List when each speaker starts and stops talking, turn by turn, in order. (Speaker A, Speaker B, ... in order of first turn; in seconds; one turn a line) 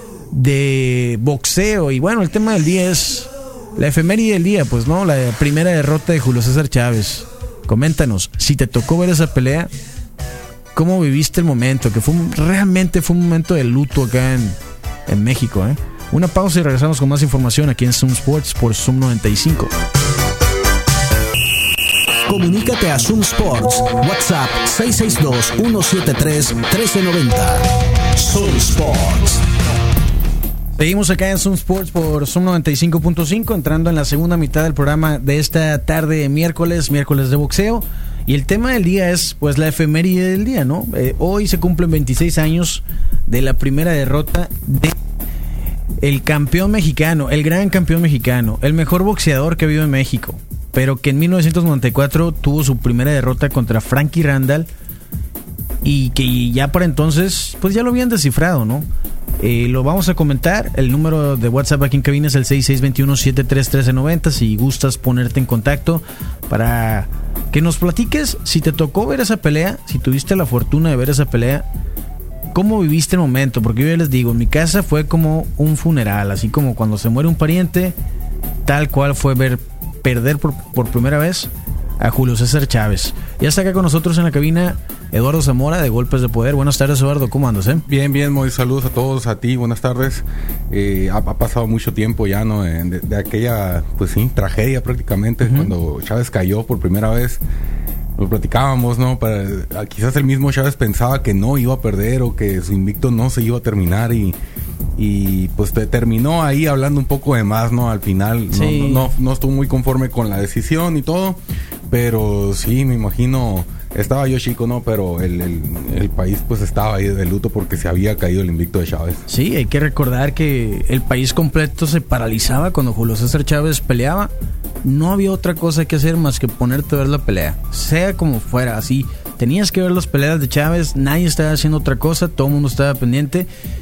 Speaker A: 0.3-9.7
Speaker A: 10.8-19.7
Speaker B: 22.3-29.4
Speaker A: 30.8-45.0
Speaker A: 46.0-54.7
Speaker A: 55.8-58.9
Speaker A: 59.4-71.7
Speaker A: 72.5-78.0
Speaker A: 78.7-87.8
Speaker C: 87.8-97.4
Speaker A: 95.5-95.7
Speaker C: 98.2-104.3
Speaker C: 105.0-111.4
Speaker A: 108.5-109.1
Speaker C: 111.9-119.3
Speaker A: 119.3-124.3
Speaker A: 124.8-133.5